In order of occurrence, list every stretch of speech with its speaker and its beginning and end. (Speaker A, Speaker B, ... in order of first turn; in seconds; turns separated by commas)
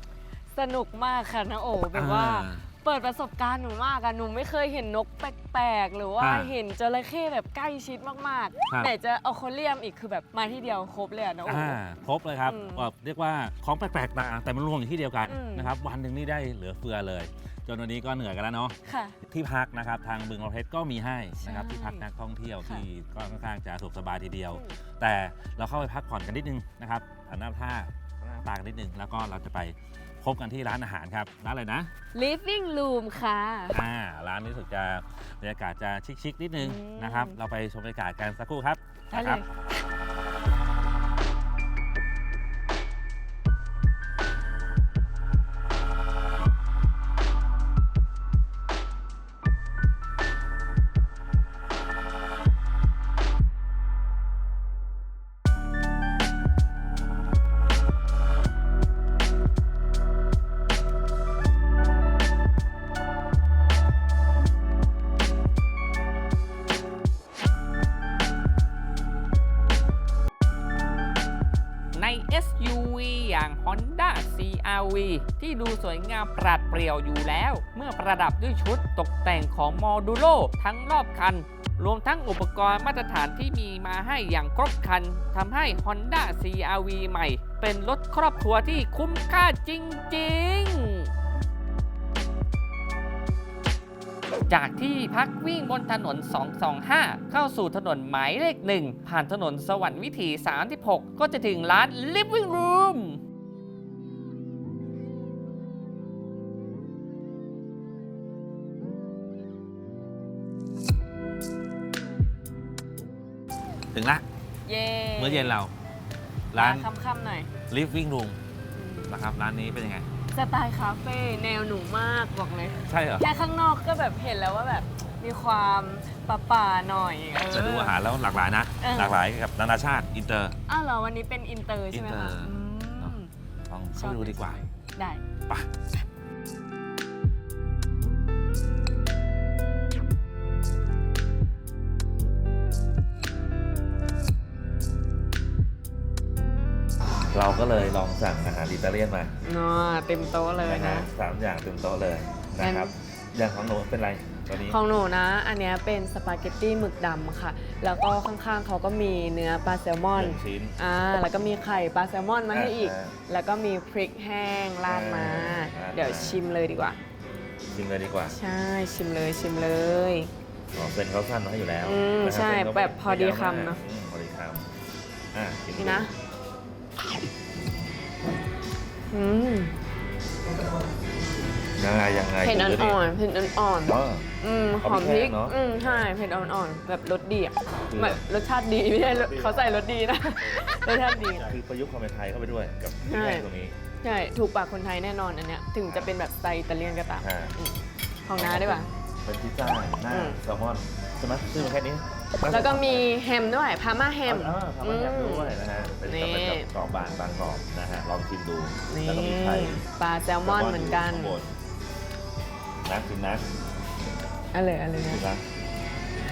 Speaker A: 0.5-11.8, Speaker B: 1.9-2.7, Speaker B: 6.2-6.5, Speaker B: 8.7-8.9, Speaker B: 11.4-18.8, Speaker A: 12.4-12.9, Speaker A: 15.3-15.7, Speaker A: 18.9-19.2, Speaker B: 19.3-31.9, Speaker A: 21.4-22.1, Speaker A: 24.5-24.8, Speaker A: 32.1-33.8, Speaker B: 33.7-39.4, Speaker A: 36.6-37.4, Speaker A: 39.1-39.5, Speaker C: 71.9-91.1, Speaker C: 94.5-103.2, Speaker B: 113.9-114.2, Speaker A: 114.7-115.6, Speaker B: 115.2-115.7, Speaker B: 116.5-116.9, Speaker A: 116.5-117.5, Speaker B: 117.7-118.4, Speaker A: 118.7-119.1, Speaker B: 119.1-120.1, Speaker A: 120.3-128.0, Speaker B: 122.8-123.3, Speaker B: 127.5-130.6, Speaker A: 128.8-129.2, Speaker A: 130.7-133.3, Speaker B: 131.9-134.6, Speaker A: 134.0-135.2, Speaker B: 147.3-149.3, Speaker A: 149.4-151.1, Speaker B: 150.6-154.8, Speaker A: 152.6-152.9, Speaker A: 154.5-167.0, Speaker B: 160.1-160.8, Speaker B: 162.5-163.2, Speaker B: 164.9-166.4, Speaker B: 167.7-168.4, Speaker A: 168.3-170.3, Speaker B: 170.7-174.7, Speaker A: 171.8-173.8, Speaker B: 175.3-176.1, Speaker A: 175.8-176.1, Speaker A: 179.1-179.7, Speaker B: 181.8-183.0, Speaker A: 182.4-191.6, Speaker B: 183.8-186.1, Speaker B: 187.9-188.2, Speaker B: 189.0-190.7, Speaker B: 191.4-193.8, Speaker A: 193.1-193.5, Speaker A: 194.0-198.9, Speaker B: 195.8-196.1, Speaker B: 197.2-197.6, Speaker B: 198.3-203.1, Speaker A: 200.1-200.4, Speaker A: 202.5-206.7, Speaker B: 204.2-209.9, Speaker A: 208.9-211.4, Speaker B: 210.4-211.5, Speaker B: 212.8-213.5, Speaker A: 214.5-215.2, Speaker B: 215.0-215.4